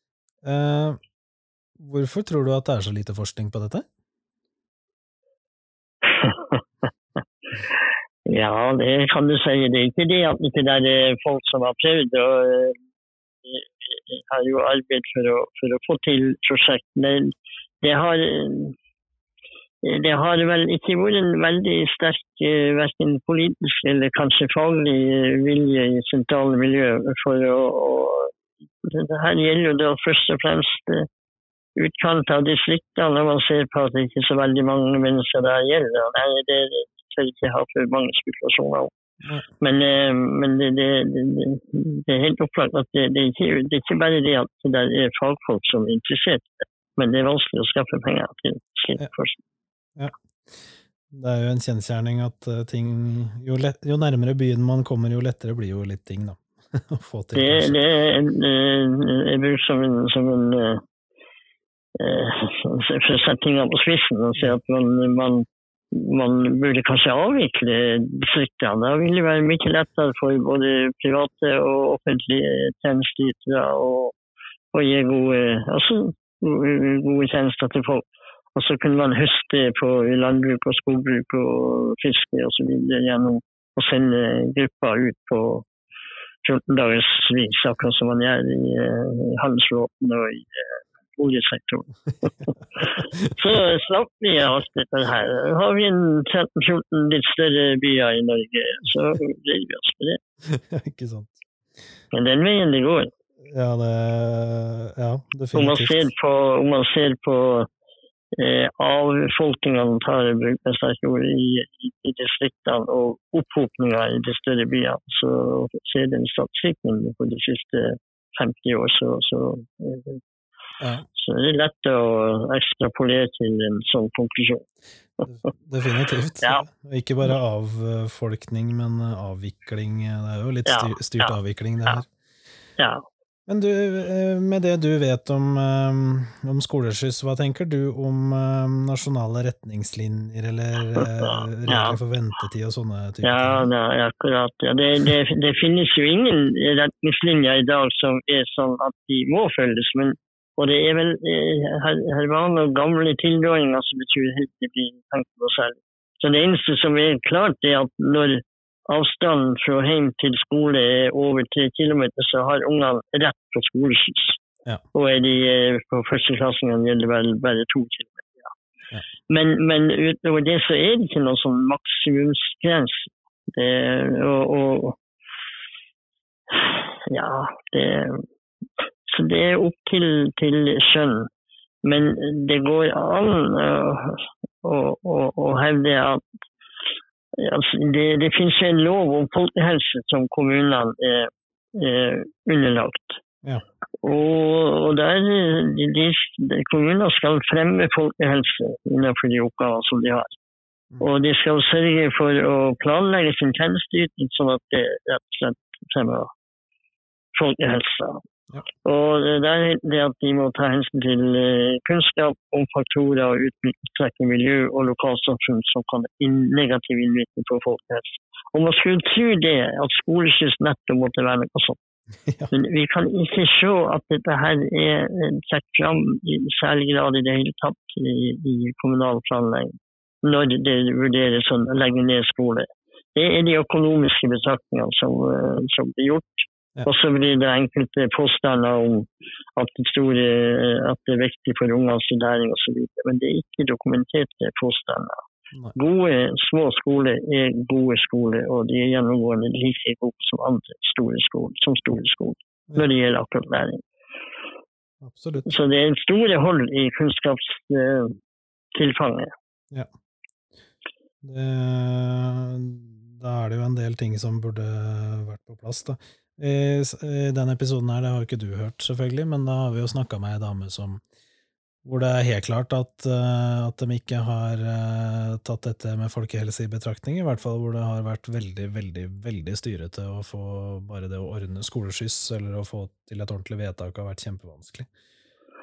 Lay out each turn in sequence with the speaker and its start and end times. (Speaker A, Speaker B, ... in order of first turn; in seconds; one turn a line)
Speaker A: 0.4-1.0
Speaker A: 1.8-3.9
Speaker B: 6.0-6.6
Speaker B: 8.2-12.8
Speaker B: 13.4-18.8
Speaker B: 19.8-28.3
Speaker B: 28.8-31.1
Speaker B: 31.8-38.9
Speaker B: 39.6-49.4
Speaker A: 50.0-57.7
Speaker B: 57.3-60.8
Speaker B: 62.0-74.1
Speaker B: 74.7-85.7
Speaker B: 86.4-100.2
Speaker A: 100.4-101.4
Speaker B: 102.1-103.1
Speaker A: 103.4-106.1
Speaker B: 105.5-107.7
Speaker B: 108.3-120.2
Speaker A: 120.8-121.0
Speaker B: 121.2-124.6
Speaker A: 125.2-132.1
Speaker B: 130.7-131.3
Speaker B: 132.8-133.0
Speaker A: 133.5-143.7
Speaker B: 140.9-142.0
Speaker B: 143.2-164.4
Speaker B: 164.9-168.5
Speaker B: 169.3-175.0
Speaker B: 176.5-178.2
Speaker B: 179.1-181.3
Speaker B: 181.8-186.2
Speaker B: 187.3-193.2
Speaker B: 194.0-200.3
Speaker B: 201.0-206.3
Speaker B: 207.3-208.2
Speaker B: 208.8-221.8
Speaker A: 222.2-222.5
Speaker B: 222.5-245.2
Speaker B: 245.7-253.8
Speaker A: 255.0-255.6
Speaker B: 255.4-258.2
Speaker B: 258.7-259.3
Speaker A: 261.2-271.0
Speaker A: 271.8-284.9